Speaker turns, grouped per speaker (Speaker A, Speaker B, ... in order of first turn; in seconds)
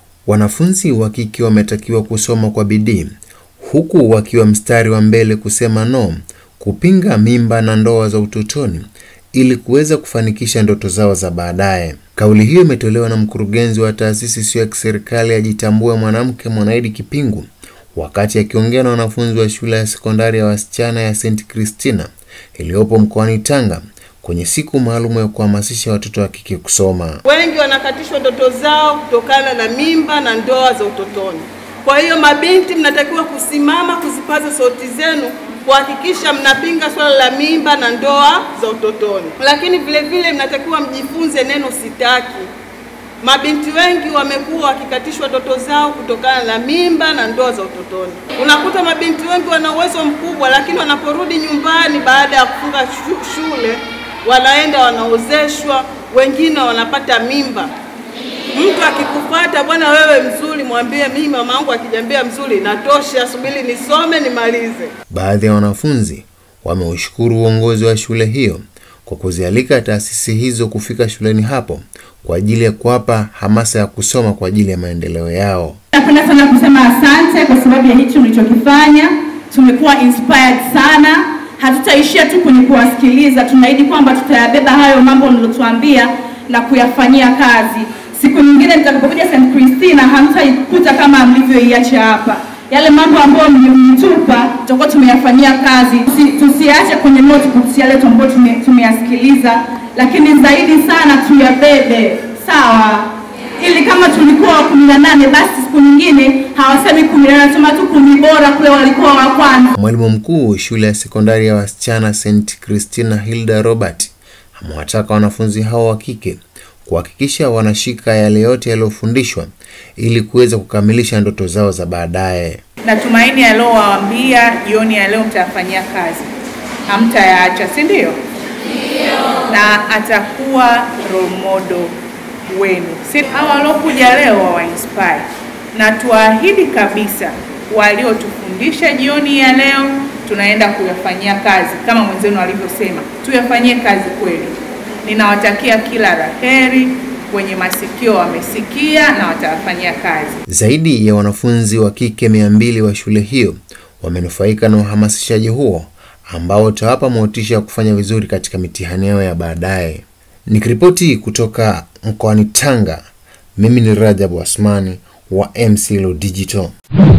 Speaker A: 0.2-27.2, 65.1-75.8, 109.7-122.6, 150.5-163.0, 163.6-166.7
Speaker B: 27.2-42.5, 43.2-57.7, 58.5-64.9
Speaker C: 75.9-109.7
Speaker D: 122.8-126.3, 126.9-128.2, 129.5-131.9, 132.5-150.4